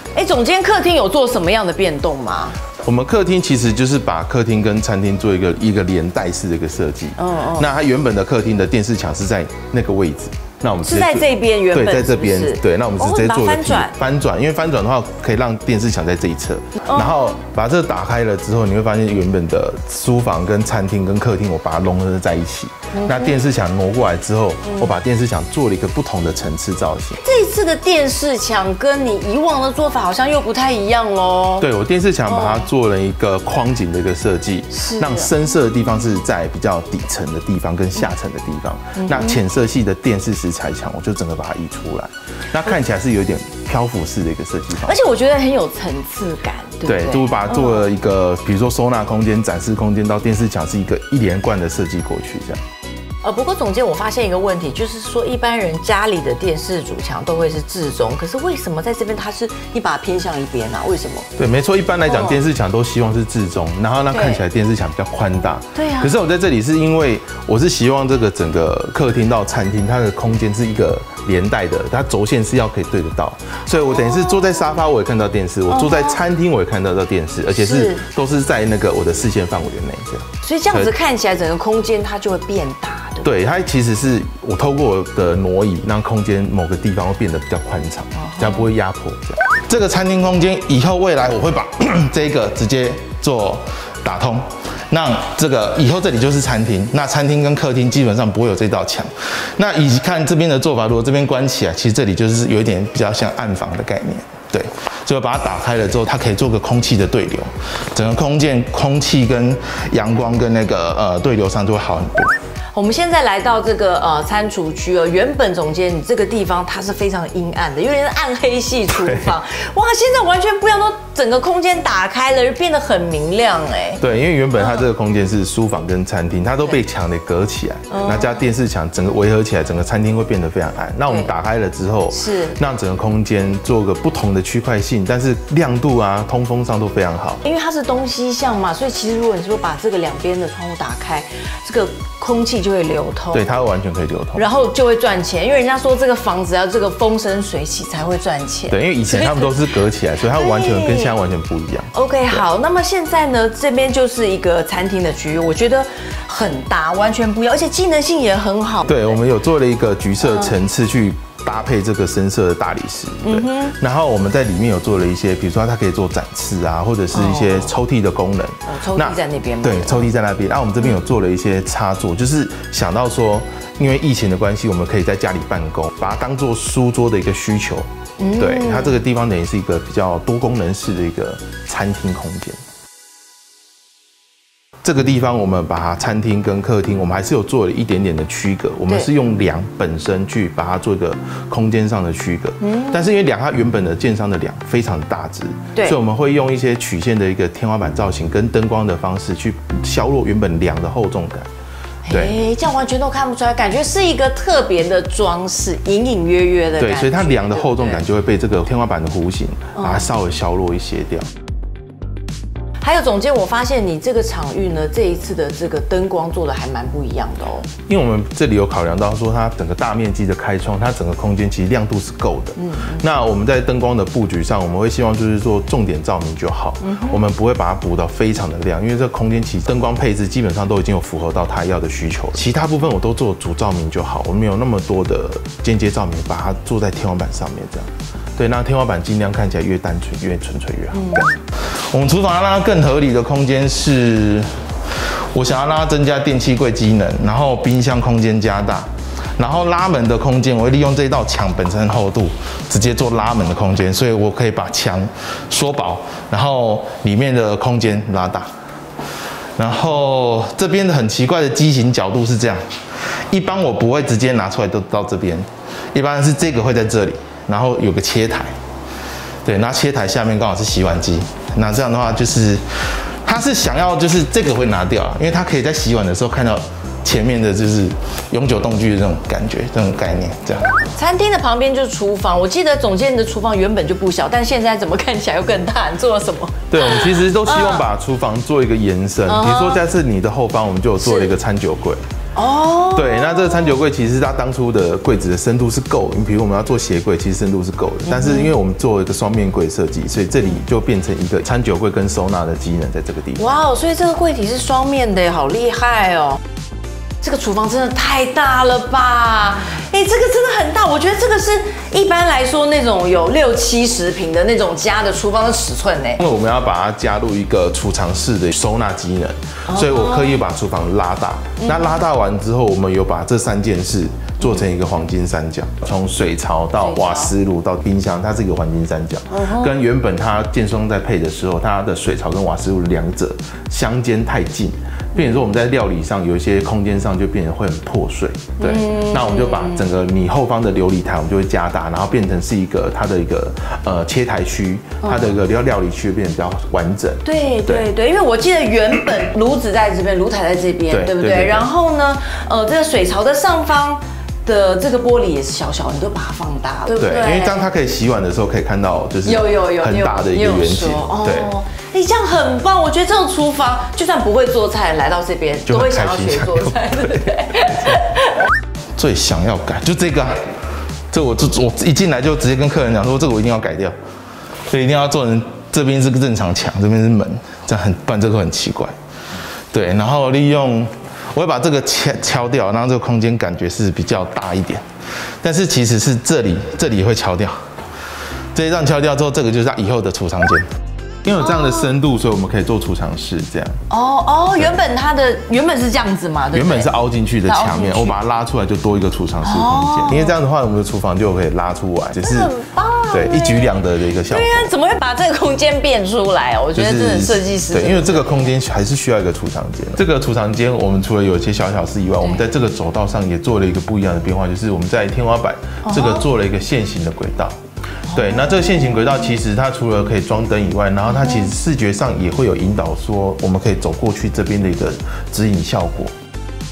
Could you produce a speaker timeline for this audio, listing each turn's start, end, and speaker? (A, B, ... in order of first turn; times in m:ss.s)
0:00.1-0:02.6 A
0:02.8-0:27.2 B
0:07.2-0:07.7 A
0:10.8-0:13.9 A
0:16.8-0:17.2 A
0:22.9-0:23.4 A
0:24.7-0:25.0 A
0:27.2-0:31.7 A
0:31.6-0:45.0 B
0:32.3-0:32.7 A
0:34.7-0:35.3 A
0:39.0-0:39.4 A
0:44.8-0:47.9 A
0:46.8-0:52.6 B
0:53.2-1:01.3 A
1:01.4-1:20.9 B
1:02.0-1:02.4 A
1:04.1-1:04.4 A
1:05.8-1:06.1 A
1:15.7-1:16.2 A
1:17.5-1:18.0 A
1:20.4-1:23.3 A
1:23.2-1:52.4 B
1:28.2-1:28.7 A
1:52.7-2:04.0 A
1:58.9-1:59.3 B
2:04.0-2:17.4 B
2:07.9-2:08.4 A
2:11.1-2:11.3 A
2:12.1-2:12.6 A
2:17.4-2:23.5 A
2:23.3-2:24.4 B
2:24.4-2:29.6 A
2:28.7-2:32.4 B
2:30.2-2:31.2 A
2:31.9-2:39.2 A
2:38.9-3:02.6 B
2:40.2-2:40.5 A
2:43.2-2:43.8 A
2:47.1-2:47.7 A
2:48.7-2:50.1 A
2:58.2-2:59.0 A
3:04.8-3:21.5 B
3:12.6-3:13.1 A
3:22.0-3:28.0 A
3:22.1-3:22.4 B
3:26.8-3:31.3 B
3:29.8-3:30.0 A
3:32.8-3:37.7 A
3:37.9-4:04.6 B
3:42.6-3:43.0 A
3:46.8-3:47.2 A
4:00.9-4:01.4 A
4:05.3-4:18.5 B
4:19.6-4:22.6 B
4:23.3-4:28.5 B
4:29.4-4:40.8 B
4:40.9-4:47.9 A
4:46.7-4:52.0 B
4:49.3-4:49.8 A
4:51.0-4:51.3 A
4:52.4-4:53.7 A
4:53.0-5:03.5 B
4:58.1-4:58.5 A
5:03.4-5:06.4 A
5:07.2-5:16.2 A
5:16.2-5:47.9 B
5:19.7-5:20.4 A
5:21.6-5:22.0 A
5:26.8-5:27.3 A
5:29.3-5:29.7 A
5:38.6-5:39.9 A
5:45.0-5:45.3 A
5:47.2-5:57.6 A
5:50.9-5:51.7 B
5:56.9-6:01.5 B
5:59.2-6:08.3 A
6:05.7-6:08.0 B
6:09.0-6:10.5 B
6:11.1-6:14.0 B
6:14.7-6:18.9 B
6:19.7-6:24.8 B
6:25.4-6:27.6 B
6:28.5-6:30.7 B
6:31.2-6:33.8 B
6:31.4-6:31.9 A
6:33.9-6:36.9 A
6:36.5-6:42.5 B
6:37.4-6:38.2 A
6:39.4-6:40.4 A
6:42.2-6:48.5 A
6:43.1-6:44.7 B
6:46.8-6:57.6 B
6:55.8-6:56.3 A
6:58.1-6:58.5 A
6:58.1-7:06.1 B
7:01.1-7:01.5 A